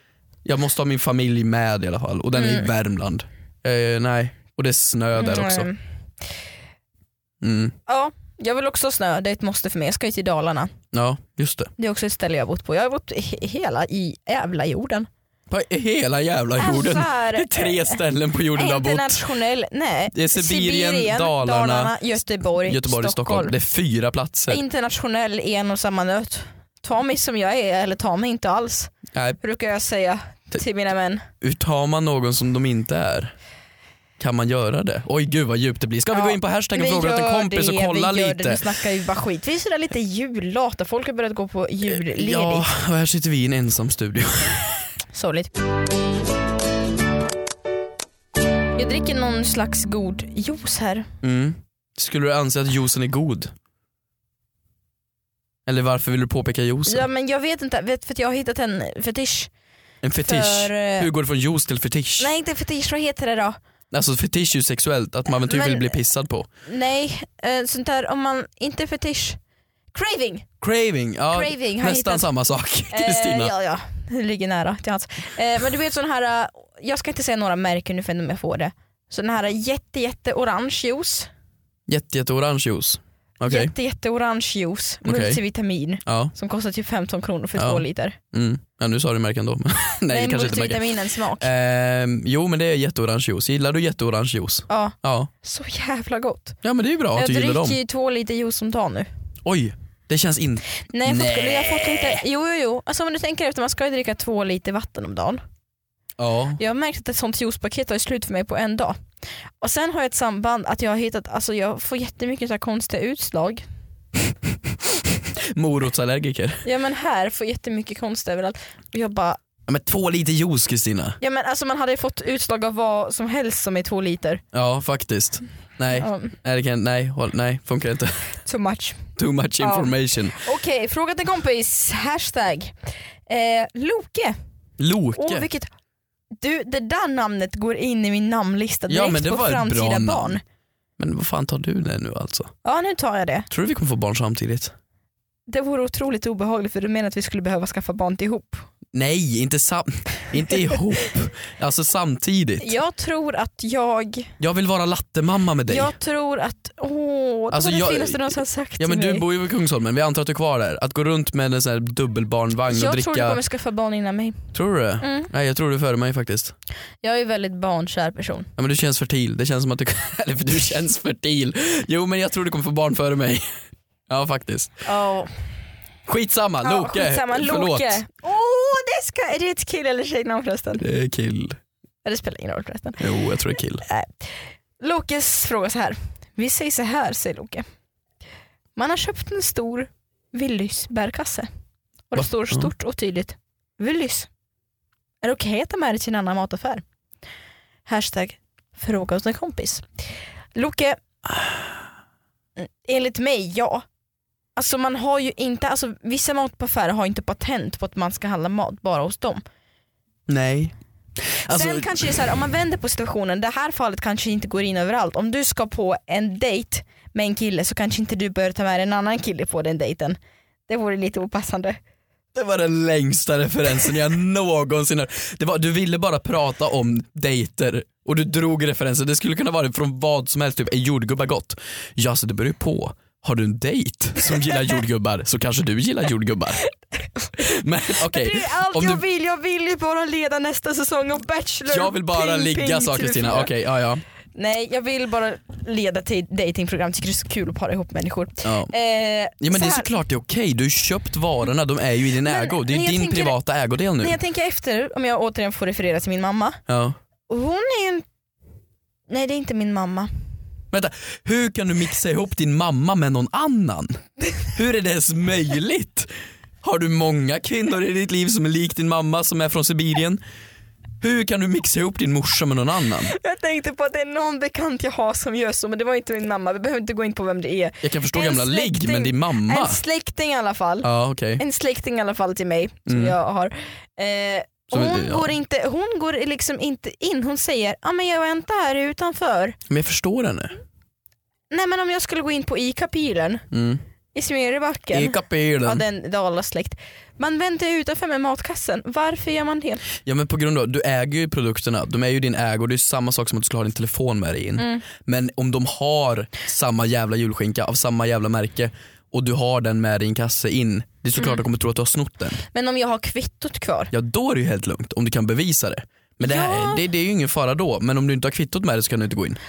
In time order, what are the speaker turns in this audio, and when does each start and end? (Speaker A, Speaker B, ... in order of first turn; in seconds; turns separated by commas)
Speaker A: 0.5-5.7, Speaker B: 2.4-2.7, Speaker B: 5.2-5.8, Speaker A: 7.4-7.8, Speaker B: 7.9-10.7, Speaker A: 10.9-11.7, Speaker B: 11.8-15.1, Speaker A: 15.5-19.3, Speaker B: 16.6-18.0, Speaker B: 18.5-23.6, Speaker A: 20.1-21.9, Speaker A: 22.6-24.6, Speaker B: 24.5-31.3, Speaker A: 29.1-29.4, Speaker A: 31.4-33.3, Speaker A: 34.2-38.7, Speaker B: 36.1-42.7, Speaker A: 41.9-44.9, Speaker B: 45.1-45.5, Speaker B: 48.8-51.1, Speaker A: 51.2-53.5, Speaker A: 55.7-57.1, Speaker B: 56.9-59.5, Speaker A: 60.0-62.3, Speaker B: 60.2-61.1, Speaker B: 62.2-63.6, Speaker A: 63.9-66.5, Speaker B: 65.4-65.9, Speaker B: 66.7-69.4, Speaker B: 69.9-70.5, Speaker A: 70.6-73.5, Speaker B: 71.3-72.3, Speaker B: 72.9-81.3, Speaker A: 81.9-83.7, Speaker B: 83.5-88.2, Speaker A: 85.0-85.4, Speaker A: 86.1-86.3, Speaker A: 87.6-95.3, Speaker B: 90.1-91.5, Speaker B: 94.7-96.6, Speaker A: 96.6-97.8, Speaker B: 97.2-99.1, Speaker A: 99.5-102.2, Speaker B: 100.9-105.4, Speaker A: 106.2-106.6, Speaker B: 106.6-109.0, Speaker B: 109.6-113.6, Speaker A: 114.9-116.6, Speaker B: 116.6-119.4, Speaker A: 119.7-121.2, Speaker B: 121.2-124.4, Speaker A: 124.5-128.3, Speaker B: 125.9-126.3, Speaker B: 128.4-132.7, Speaker A: 129.2-130.4, Speaker B: 133.3-134.4, Speaker A: 134.8-135.5, Speaker B: 135.2-135.7, Speaker B: 136.4-140.4, Speaker A: 138.9-140.4, Speaker A: 141.0-142.5, Speaker B: 142.6-143.5, Speaker A: 143.5-144.7, Speaker B: 145.5-148.7, Speaker A: 148.9-152.8, Speaker B: 152.6-154.3, Speaker A: 154.4-155.9, Speaker B: 155.7-159.2, Speaker A: 157.5-163.4, Speaker B: 162.7-165.3, Speaker A: 164.5-166.6, Speaker B: 167.0-168.5, Speaker A: 168.6-173.4, Speaker A: 174.1-174.8, Speaker B: 174.8-175.3, Speaker A: 176.1-178.0, Speaker B: 176.6-180.8, Speaker A: 180.8-181.6, Speaker B: 182.0-183.0, Speaker A: 183.0-183.8, Speaker B: 183.8-187.7, Speaker B: 188.8-191.5, Speaker B: 192.1-194.3, Speaker A: 192.2-192.7, Speaker B: 195.2-196.8, Speaker B: 197.9-199.8, Speaker B: 200.6-201.0, Speaker B: 202.6-203.8, Speaker B: 204.6-209.4, Speaker A: 210.3-210.7, Speaker A: 211.3-212.1, Speaker B: 211.5-221.8, Speaker A: 222.3-236.6, Speaker A: 237.4-239.0, Speaker B: 237.9-243.5, Speaker A: 241.7-244.0, Speaker B: 244.3-249.9, Speaker A: 248.4-248.7, Speaker A: 249.4-254.2, Speaker B: 252.2-253.4, Speaker B: 254.0-256.6, Speaker A: 256.7-257.0, Speaker B: 257.3-258.1, Speaker B: 259.1-260.1, Speaker A: 260.7-270.2, Speaker A: 271.0-273.1, Speaker B: 273.0-289.6, Speaker A: 277.8-279.8, Speaker A: 280.8-281.4, Speaker A: 282.9-283.2, Speaker A: 284.7-285.3, Speaker A: 289.7-290.6, Speaker B: 291.5-293.5, Speaker A: 293.5-293.8, Speaker B: 294.1-299.8, Speaker A: 294.9-295.8, Speaker A: 300.0-312.4, Speaker B: 304.6-304.8, Speaker B: 312.5-313.9, Speaker A: 313.9-319.4, Speaker B: 316.2-316.8